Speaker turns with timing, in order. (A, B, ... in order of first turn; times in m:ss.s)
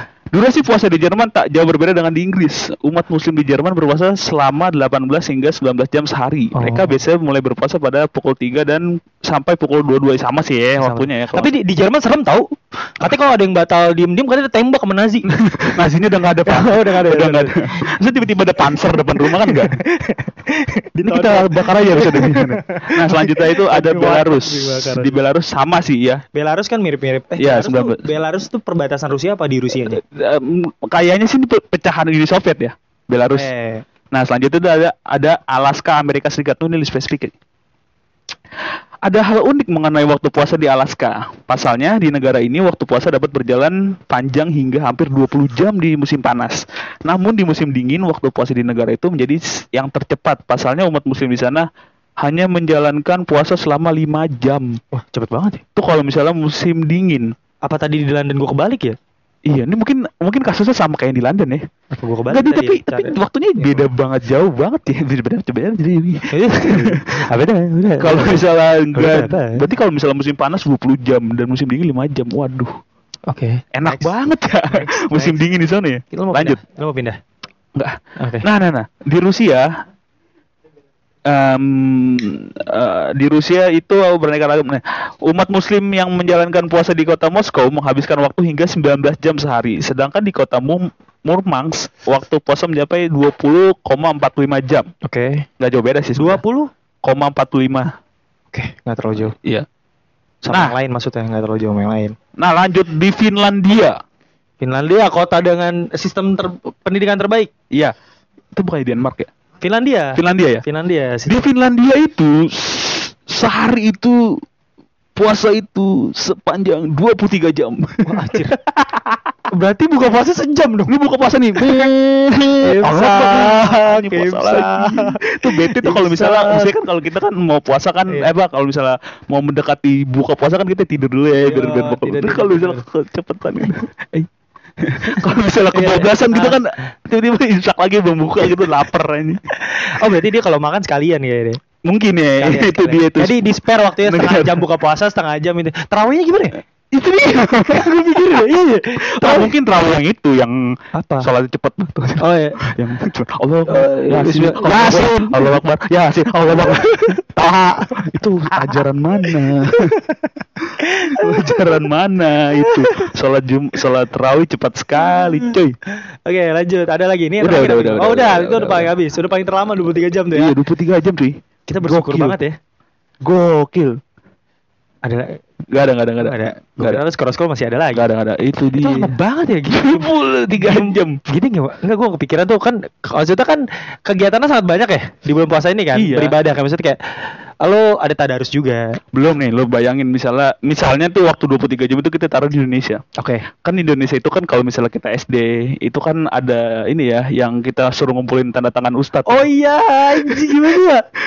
0:00.3-0:11.5 A
0:06.6-0:07.0 B
0:10.8-0:12.5 B
0:13.0-0:15.3 B
0:15.3-0:19.8 A
0:16.4-0:17.9 B
0:18.7-0:25.1 B
0:21.0-0:26.2 A
0:26.3-0:30.0 B
0:27.4-0:28.1 A
0:29.8-0:33.5 A
0:33.3-0:33.8 B
0:34.1-0:37.3 A
0:39.1-0:51.7 A
0:52.2-0:54.8 A
0:54.9-0:55.6 B
0:55.8-0:57.3 A
0:57.6-0:59.0 B
0:59.5-1:01.6 A
1:01.9-1:03.8 B
1:02.3-1:07.1 A
1:06.3-1:08.4 B
1:08.0-1:12.7 A
1:09.0-1:09.7 B
1:13.3-1:14.2 B
1:13.7-1:16.6 A
1:14.7-1:15.4 B
1:16.1-1:17.2 B
1:17.8-1:19.7 A
1:18.2-1:18.5 B
1:21.3-1:34.9 A
1:35.0-1:35.5 B
1:35.6-1:36.4 A
1:36.2-1:36.7 B
1:37.0-1:37.9 A
1:38.5-1:39.4 B
1:39.3-1:39.7 A
1:40.4-1:42.2 B
1:40.5-1:40.8 A
1:42.4-1:44.0 A
1:44.6-1:47.5 B
1:48.5-1:49.3 A
1:49.6-1:51.4 B
1:50.2-1:50.6 A
1:51.3-1:54.4 A
1:55.2-1:59.2 A
1:58.1-1:58.6 B
1:59.5-2:00.9 B
2:00.9-2:14.3 A
2:02.6-2:06.7 B
2:11.4-2:12.8 B
2:14.8-2:19.4 A
2:15.0-2:16.6 B
2:19.6-2:21.6 B
2:21.9-2:23.4 A
2:22.4-2:26.6 B
2:24.0-2:24.6 A
2:26.9-2:28.5 A
2:27.7-2:29.5 B
2:29.0-2:40.0 A
2:30.9-2:31.3 B
2:32.2-2:32.6 B
2:33.7-2:35.6 B
2:36.6-2:37.9 B
2:39.7-2:41.8 B
2:40.7-2:45.8 A
2:42.6-2:43.1 B
2:45.0-2:45.5 B
2:46.3-2:50.5 B
2:47.4-2:48.9 A
2:50.3-2:52.4 A
2:51.7-2:52.6 B
2:53.2-2:54.0 A
2:55.0-2:55.4 B
2:55.7-2:57.0 A
2:56.2-2:58.0 B
2:57.9-2:59.1 A
2:58.7-3:07.0 B
2:59.7-3:01.2 A
3:05.9-3:06.4 A
3:07.6-3:09.0 B
3:09.1-3:13.0 A
3:13.2-3:13.5 B
3:13.5-3:19.5 A
3:19.3-3:21.0 B
3:20.2-3:20.8 A